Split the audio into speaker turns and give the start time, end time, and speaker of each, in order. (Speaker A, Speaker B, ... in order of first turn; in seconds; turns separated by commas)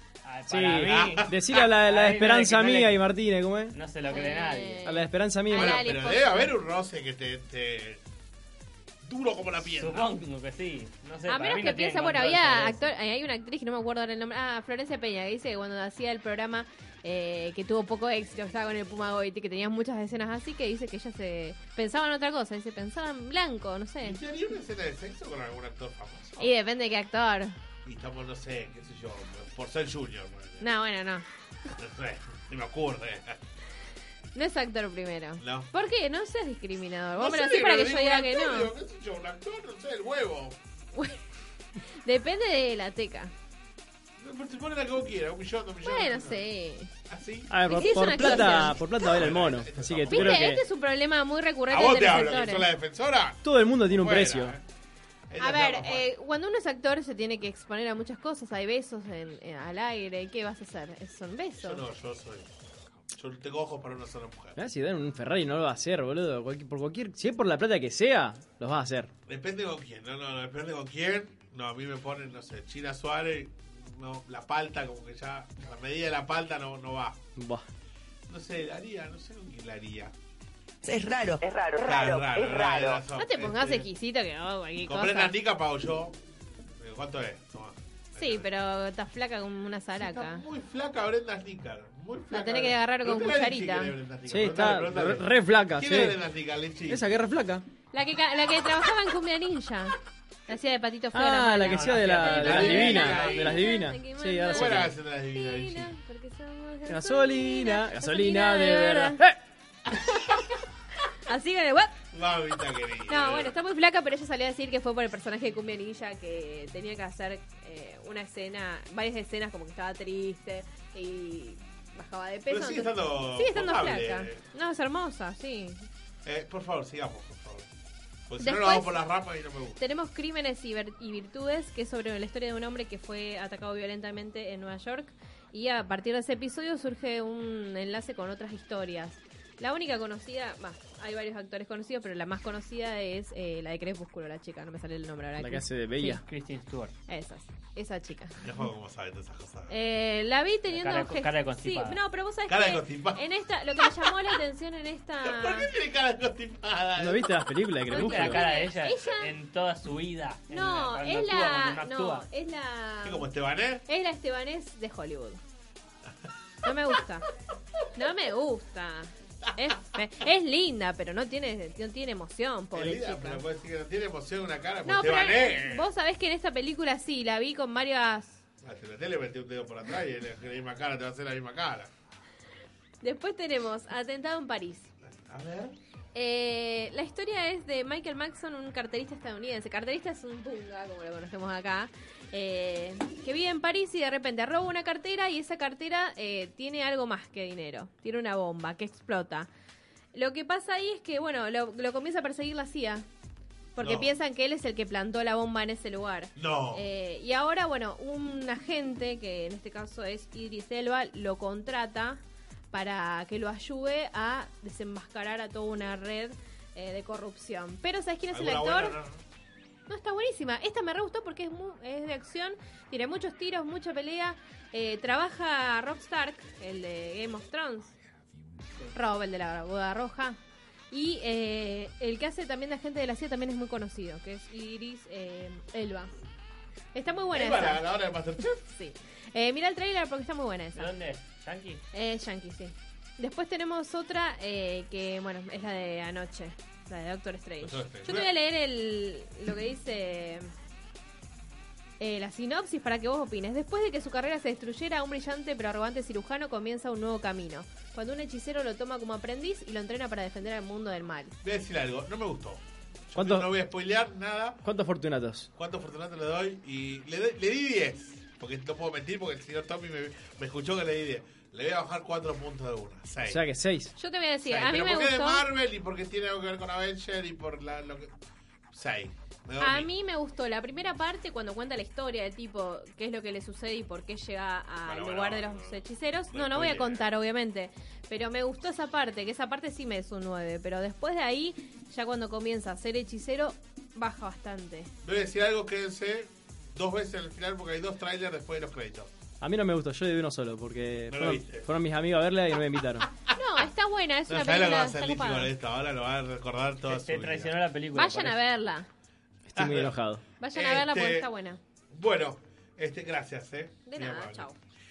Speaker A: 0.2-3.0, Speaker B: 0.5-3.8, Speaker C: 0.8-1.3, Speaker A: 3.7-4.9, Speaker D: 4.1-6.5, Speaker B: 4.8-5.8, Speaker C: 5.5-8.0, Speaker C: 9.0-10.1, Speaker A: 9.7-12.9, Speaker D: 11.3-24.2, Speaker C: 24.0-26.5, Speaker D: 26.4-27.5, Speaker C: 27.8-30.7, Speaker D: 30.6-31.2, Speaker C: 31.8-33.4, Speaker D: 34.3-38.7, Speaker C: 35.4-35.7, Speaker C: 37.2-40.6, Speaker D: 42.0-43.3, Speaker C: 44.2-46.5, Speaker D: 45.8-46.9, Speaker C: 47.1-50.5, Speaker B: 47.5-50.6, Speaker D: 47.6-49.0, Speaker D: 50.1-52.7, Speaker C: 51.7-54.6, Speaker B: 53.4-54.5, Speaker C: 55.3-56.0, Speaker D: 55.4-61.8, Speaker C: 61.6-62.5, Speaker C: 63.1-64.6, Speaker B: 64.6-69.1, Speaker C: 69.3-77.2, Speaker B: 77.3-77.7, Speaker C: 78.3-80.1, Speaker E: 80.8-83.0, Speaker C: 81.8-83.8, Speaker D: 83.1-85.3, Speaker C: 84.8-86.1, Speaker C: 86.8-88.5, Speaker D: 88.1-90.4, Speaker C: 90.0-97.1, Speaker D: 92.3-93.9, Speaker B: 94.3-96.2, Speaker B: 96.9-97.6, Speaker D: 97.9-100.0, Speaker D: 100.5-109.2, Speaker B: 101.1-104.9, Speaker A: 101.6-103.3, Speaker C: 102.4-103.6, Speaker C: 104.5-105.9, Speaker B: 106.9-109.4, Speaker D: 111.3-111.9, Speaker C: 112.1-113.5, Speaker D: 113.1-125.9, Speaker C: 122.5-124.4, Speaker C: 126.2-127.7, Speaker C: 128.3-129.8, Speaker D: 128.4-129.0, Speaker D: 129.8-146.2, Speaker B: 145.4-146.2, Speaker A: 146.0-146.9, Speaker D: 147.1-148.3, Speaker C: 148.4-149.7, Speaker D: 149.7-155.7, Speaker A: 150.7-152.0, Speaker C: 152.5-153.2, Speaker C: 155.2-157.3, Speaker B: 157.0-158.4, Speaker D: 157.9-159.3, Speaker A: 157.9-162.2, Speaker D: 160.5-163.3, Speaker C: 163.0-163.8, Speaker D: 163.9-165.4, Speaker D: 166.6-167.2, Speaker D: 167.9-173.4, Speaker C: 172.7-175.9, Speaker D: 174.8-178.4, Speaker C: 178.6-181.9, Speaker D: 183.0-184.9, Speaker C: 185.0-185.7, Speaker D: 186.1-199.5, Speaker D: 200.1-203.1, Speaker D: 203.8-219.0, Speaker C: 203.8-204.1, Speaker C: 206.3-206.8, Speaker C: 218.3-219.2, Speaker D: 219.9-227.9, Speaker D: 228.9-230.4, Speaker D: 230.9-236.1, Speaker D: 236.9-237.8, Speaker C: 237.3-238.6, Speaker D: 238.5-240.9, Speaker A: 240.7-241.8, Speaker D: 241.9-250.5, Speaker C: 247.6-248.3, Speaker D: 252.0-261.3, Speaker C: 261.4-264.6, Speaker B: 263.1-263.5, Speaker B: 264.6-265.5, Speaker C: 265.6-273.4, Speaker B: 273.3-273.9, Speaker D: 273.9-275.4, Speaker C: 274.4-278.1, Speaker C: 278.7-279.9, Speaker D: 279.6-294.9, Speaker C: 284.8-287.1, Speaker C: 295.0-299.1, Speaker B: 299.4-303.1, Speaker C: 301.1-301.6, Speaker D: 303.4-305.5, Speaker C: 304.3-307.5, Speaker A: 306.9-308.4, Speaker D: 307.9-308.9, Speaker B: 309.5-310.2, Speaker C: 309.6-309.9, Speaker D: 310.4-311.6, Speaker C: 310.5-311.3, Speaker C: 311.9-314.5, Speaker D: 313.8-314.6